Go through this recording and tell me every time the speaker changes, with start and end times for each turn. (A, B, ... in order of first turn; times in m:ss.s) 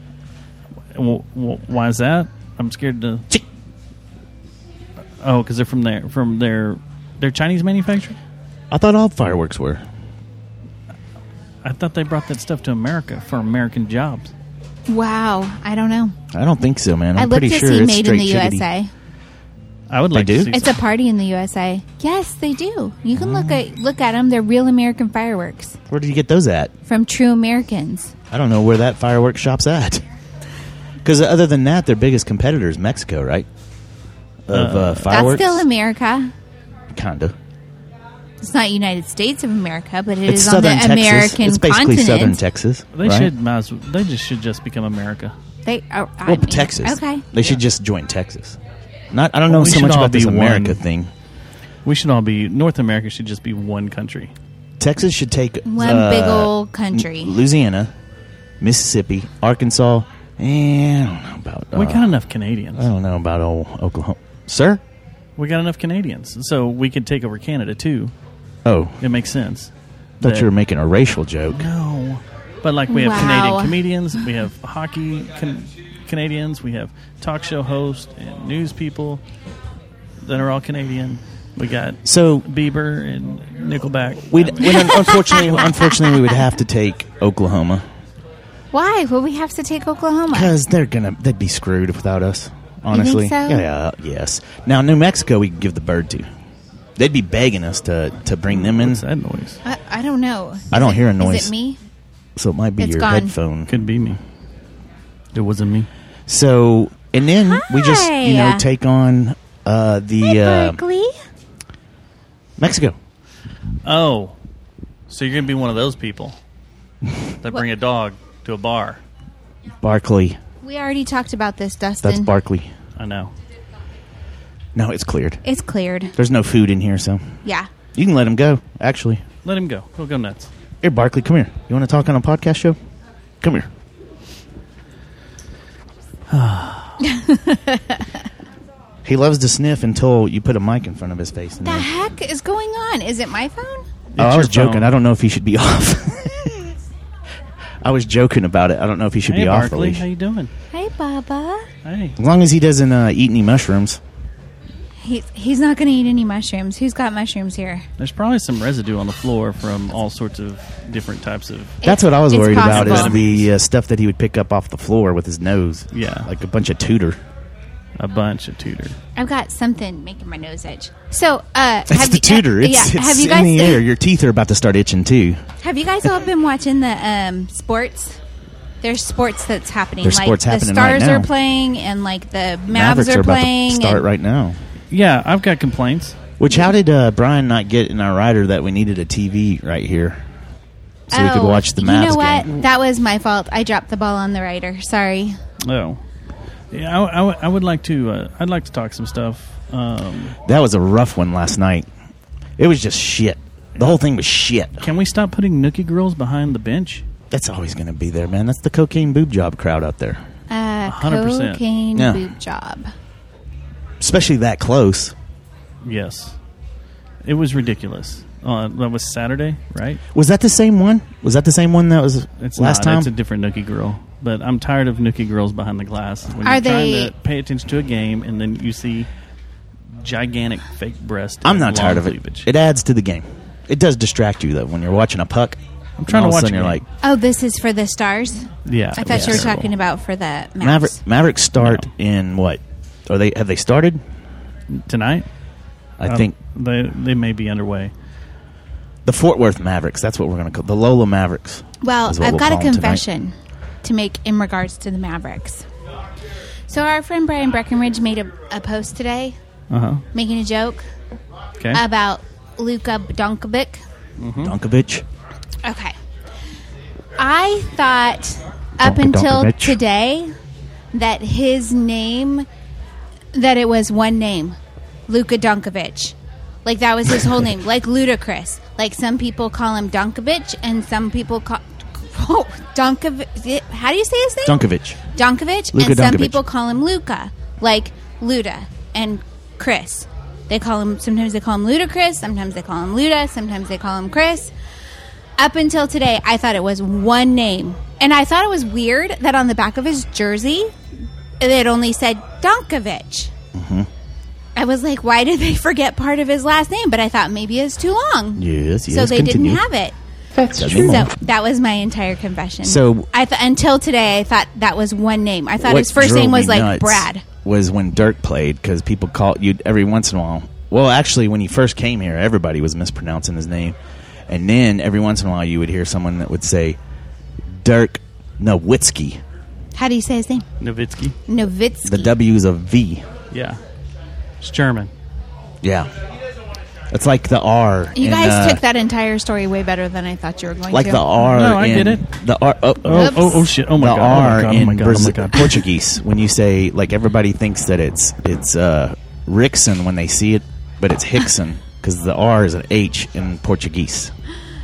0:00.9-0:03.3 A
0:05.2-0:08.2 A
0:08.7-0:09.8 B
0:11.6-0:14.3 A
0:14.9-0:16.2 C
0:16.3-0:18.7 B
0:17.2-0:18.9 C
0:19.9-0:20.8 A
0:20.1-0:20.5 B
0:20.5-0:25.8 C
0:25.9-0:26.7 B
0:26.9-0:28.1 C
0:28.3-0:30.0 B
0:31.0-0:33.5 B
0:34.5-0:35.6 B
0:34.5-0:35.5 A
0:35.1-0:36.3 C
0:36.9-0:37.4 B
0:38.4-0:42.4 C
0:40.3-0:43.3 B
0:42.9-0:45.4 A
0:45.6-0:47.2 C
0:46.2-0:48.6 B
0:49.1-0:51.1 B
0:49.5-0:50.8 A
0:51.8-0:54.3 A
0:54.8-0:57.9 B
0:55.7-0:57.4 C
0:58.6-1:02.1 B
1:01.8-1:02.9 A
1:02.8-1:04.8 B
1:05.4-1:08.1 A
1:08.6-1:09.0 B
1:09.0-1:10.5 A
1:10.2-1:11.7 B
1:11.5-1:19.2 A
1:12.9-1:13.7 C
1:20.2-1:24.9 A
1:22.0-1:22.5 B
1:24.3-1:27.8 B
1:24.7-1:26.1 C
1:28.7-1:30.5 C
1:30.3-1:36.3 B
1:32.9-1:33.6 C
1:37.0-1:39.0 B
1:38.5-1:39.6 A
1:39.6-1:41.8 C
1:40.7-1:41.5 B
1:42.4-1:43.8 B
1:42.8-1:43.4 C
1:43.7-1:44.2 A
1:45.3-1:45.9 A
1:46.3-1:50.8 B
1:47.5-1:48.6 C
1:50.2-1:51.2 C
1:52.6-1:53.0 B
1:53.8-1:54.4 A
1:55.1-1:56.4 A
1:57.4-1:59.0 A
1:59.8-2:00.4 B
2:00.6-2:02.3 C
2:02.0-2:02.7 B
2:03.0-2:03.3 A
2:04.8-2:05.4 B
2:05.4-2:06.1 C
2:06.2-2:07.3 B
2:08.0-2:09.2 B
2:09.4-2:10.5 A
2:10.8-2:12.8 B
2:13.4-2:13.7 B
2:16.3-2:17.0 A
2:17.0-2:18.0 C
2:19.0-2:21.9 B
2:21.6-2:23.9 C
2:24.1-2:24.9 A
2:24.2-2:26.7 B
2:27.8-2:30.0 B
2:29.3-2:30.5 A
2:30.7-2:31.7 C
2:31.8-2:32.2 A
2:32.2-2:34.0 B
2:35.0-2:37.8 C
2:38.0-2:41.8 A
2:41.8-2:43.2 C
2:41.8-2:47.2 B
2:42.4-2:43.5 A
2:45.9-2:46.3 A
2:48.0-2:49.0 A
2:49.2-2:53.8 C
2:51.9-2:55.4 B
2:55.6-2:58.2 C
2:58.8-3:04.0 C
3:00.0-3:01.3 B
3:02.7-3:04.6 B
3:04.9-3:06.2 A
3:06.4-3:10.2 B
3:11.1-3:12.5 B
3:11.1-3:15.4 C
3:15.6-3:16.0 A
3:16.7-3:20.4 A
3:20.4-3:21.9 B
3:22.6-3:24.8 B
3:24.8-3:27.0 A
3:27.3-3:30.2 B
3:30.5-3:32.9 C
3:30.9-3:31.6 A
3:32.0-3:32.2 B
3:34.0-3:35.2 B
3:35.8-3:36.4 A
3:37.2-3:40.0 A
3:40.1-3:43.1 B
3:42.4-3:49.1 A
3:46.4-3:47.1 C
3:50.0-3:52.5 A
3:51.4-3:56.8 B
3:56.0-3:56.8 A
3:57.0-4:01.0 C
3:58.7-3:59.7 A
3:59.1-3:59.5 B
4:00.6-4:04.0 B
4:01.6-4:01.9 A
4:04.7-4:05.3 A
4:06.0-4:06.4 B
4:06.1-4:07.9 A
4:09.0-4:13.0 B
4:11.8-4:15.6 C
4:16.7-4:19.4 C
4:19.7-4:20.0 A
4:20.1-4:20.9 C
4:21.7-4:23.8 C
4:24.2-4:24.6 A
4:24.4-4:25.0 B
4:25.6-4:26.0 C
4:27.2-4:30.3 C
4:28.8-4:29.8 B
4:30.9-4:32.5 C
4:33.3-4:34.6 C
4:35.1-4:44.6 C
4:44.4-4:45.0 B
4:45.2-4:54.5 C
4:45.7-4:46.4 B
4:55.4-5:00.7 C
5:01.4-5:03.3 C
5:03.5-5:03.9 B
5:04.6-5:10.0 C
5:08.4-5:09.6 B
5:10.6-5:11.1 B
5:10.6-5:17.2 C
5:12.6-5:13.1 B
5:15.6-5:23.8 B
5:24.3-5:26.8 B
5:27.6-5:29.2 B
5:29.8-5:30.5 C
5:30.6-5:31.2 A
5:31.3-5:32.1 C
5:31.8-5:33.1 B
5:33.3-5:33.6 A
5:34.4-5:34.9 A
5:35.6-5:35.9 B
5:36.9-5:38.6 B
5:38.0-5:41.2 C
5:40.7-5:54.1 B
5:41.2-5:42.0 A
5:42.8-5:45.5 A
5:42.9-5:43.5 C